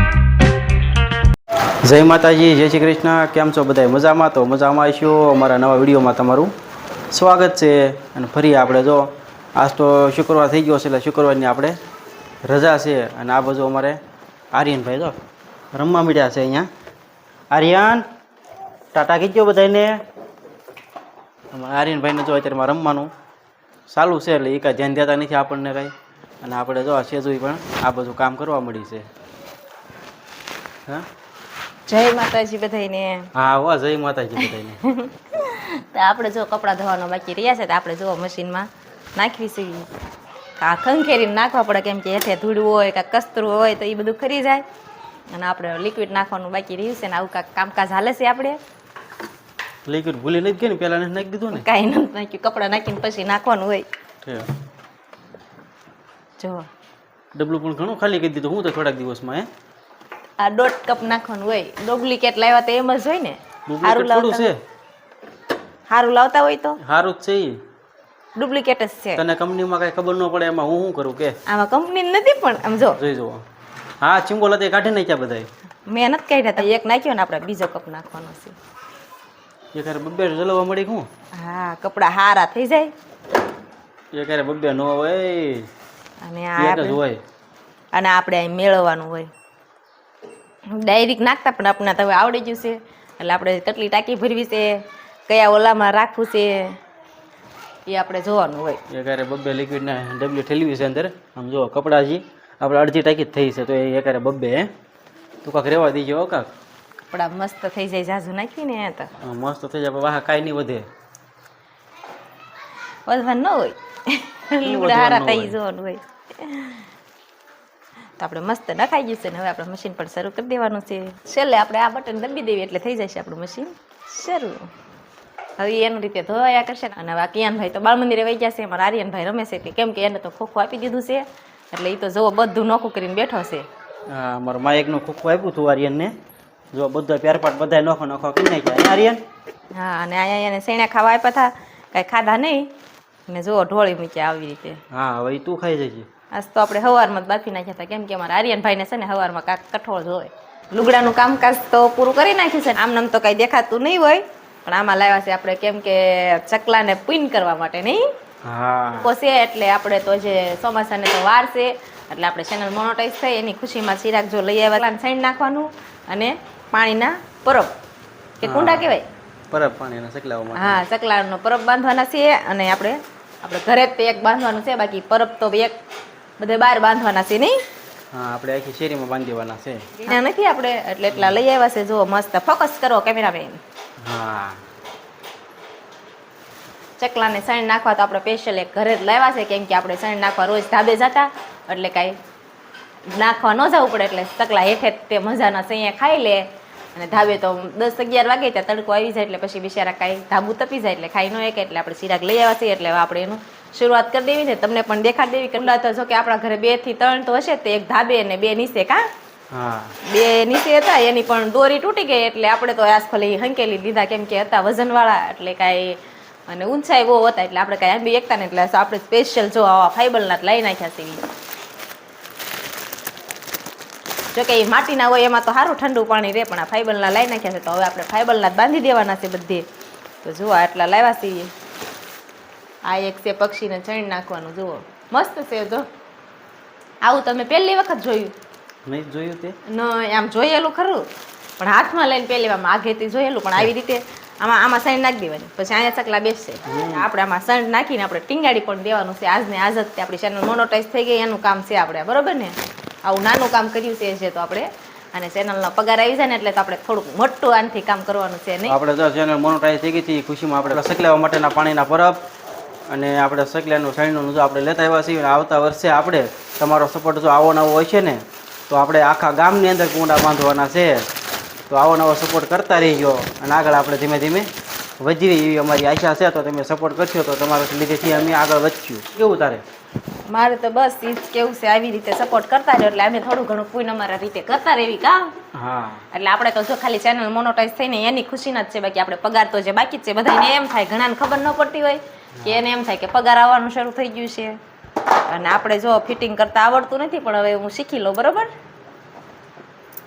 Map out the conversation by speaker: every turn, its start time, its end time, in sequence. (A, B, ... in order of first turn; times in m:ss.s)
0:01.8-0:06.5 A
0:07.1-0:11.8 A
0:12.5-0:14.0 A
0:14.5-0:15.2 A
0:15.7-0:16.7 A
0:17.5-0:18.0 A
0:18.9-0:19.9 A
0:21.5-0:23.1 A
0:23.9-0:29.1 A
0:31.9-0:33.3 B
0:33.4-0:34.8 A
0:34.4-0:39.9 B
0:40.6-0:44.6 B
0:45.3-0:48.6 B
0:49.9-0:51.7 A
0:51.5-0:53.9 B
0:54.2-0:54.5 A
0:56.4-0:56.7 B
0:57.4-0:59.5 A
1:00.4-1:04.5 B
1:03.7-1:04.6 A
1:05.9-1:06.8 B
1:06.8-1:07.6 A
1:08.4-1:09.2 B
1:09.2-1:11.4 A
1:11.5-1:13.0 B
1:13.0-1:13.4 A
1:14.0-1:15.5 A
1:15.9-1:18.6 B
1:19.7-1:21.1 A
1:21.4-1:22.9 B
1:24.1-1:25.7 A
1:26.2-1:27.0 B
1:26.6-1:27.2 A
1:27.9-1:29.3 B
1:30.8-1:36.8 B
1:37.9-1:38.8 B
1:38.9-1:44.7 A
1:45.4-1:46.5 A
1:47.0-1:49.1 B
1:49.2-1:50.9 A
1:53.1-1:56.9 B
1:54.6-1:55.6 A
1:58.2-2:04.7 B
2:05.6-2:13.7 B
2:14.1-2:16.1 A
2:16.7-2:19.2 A
2:19.7-2:22.7 B
2:23.3-2:24.8 B
2:24.9-2:26.1 A
2:26.3-2:38.0 B
2:38.4-2:39.1 A
2:38.9-2:47.7 B
2:48.4-2:49.1 B
2:48.4-2:49.0 A
2:49.5-2:50.8 A
2:50.5-2:55.7 B
2:56.4-2:57.6 B
2:58.1-2:59.9 A
3:00.0-3:03.6 B
3:01.1-3:01.4 A
3:04.0-3:04.6 A
3:07.0-3:12.2 B
3:13.1-3:29.0 B
3:29.5-3:30.0 A
3:30.0-3:41.2 B
3:44.3-3:49.6 B
3:50.2-3:51.5 B
3:52.9-3:55.8 B
3:57.0-3:58.3 B
3:58.9-3:59.6 A
3:59.7-4:01.0 B
4:01.6-4:18.8 B
4:06.7-4:07.1 A
4:18.7-4:22.2 A
4:22.9-4:31.0 A
4:31.7-4:34.5 A
4:35.0-4:39.6 A
4:40.3-4:45.3 B
4:45.5-4:46.0 A
4:46.1-4:54.6 B
4:55.3-4:58.5 B